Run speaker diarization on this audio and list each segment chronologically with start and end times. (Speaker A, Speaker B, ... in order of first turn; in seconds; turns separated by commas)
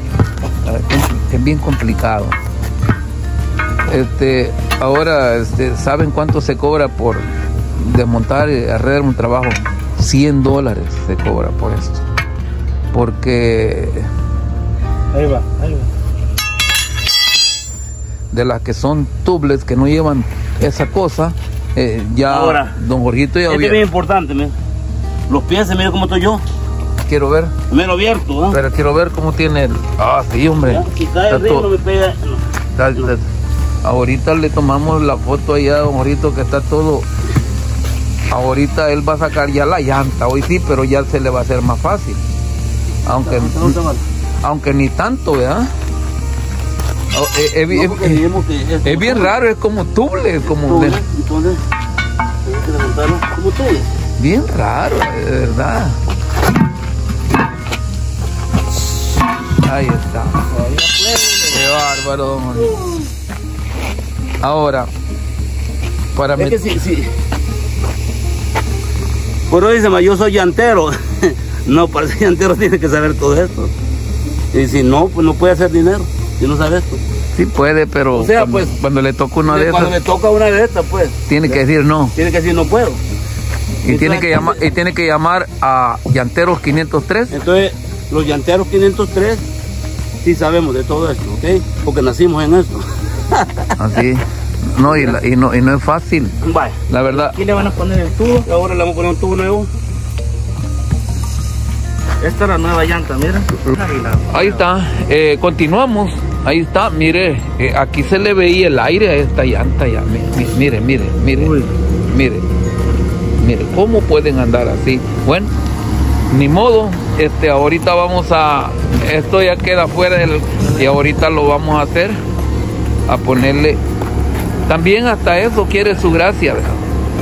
Speaker A: 0.6-2.4, Speaker A: 3.9-12.0, Speaker A: 12.9-14.1, Speaker B: 15.1-15.9, Speaker A: 18.3-23.8, Speaker C: 22.3-22.8, Speaker C: 23.5-24.5, Speaker C: 25.3-26.4, Speaker A: 27.1-27.5, Speaker C: 27.7-28.6, Speaker A: 28.5-31.7, Speaker C: 30.6-32.4, Speaker A: 32.8-33.2, Speaker A: 33.8-37.1, Speaker A: 38.3-42.2, Speaker A: 43.0-43.8, Speaker B: 43.3-43.9, Speaker A: 44.4-45.7, Speaker A: 47.1-48.2, Speaker C: 47.7-49.4, Speaker A: 48.8-51.0, Speaker C: 50.4-51.6, Speaker C: 52.5-53.9, Speaker A: 54.2-56.0, Speaker A: 59.6-60.5, Speaker B: 60.5-61.5, Speaker A: 61.5-62.8, Speaker A: 64.4-64.9, Speaker A: 66.2-66.6, Speaker C: 66.4-67.1, Speaker C: 69.5-73.7, Speaker C: 74.5-77.0, Speaker A: 77.3-80.0, Speaker C: 78.1-78.7, Speaker C: 79.4-81.6, Speaker A: 81.3-82.1, Speaker C: 82.1-83.0, Speaker A: 83.8-87.4, Speaker C: 83.9-84.6, Speaker C: 87.3-89.5, Speaker C: 90.2-93.7, Speaker A: 93.8-96.4, Speaker C: 94.9-95.2, Speaker C: 96.4-96.8, Speaker A: 96.9-97.4, Speaker B: 97.1-98.5, Speaker C: 98.5-99.7, Speaker B: 102.2-104.6, Speaker A: 104.3-111.5, Speaker B: 111.4-111.7, Speaker A: 112.1-112.5, Speaker A: 113.4-115.5, Speaker A: 116.3-122.2, Speaker A: 123.1-123.8, Speaker A: 124.7-126.8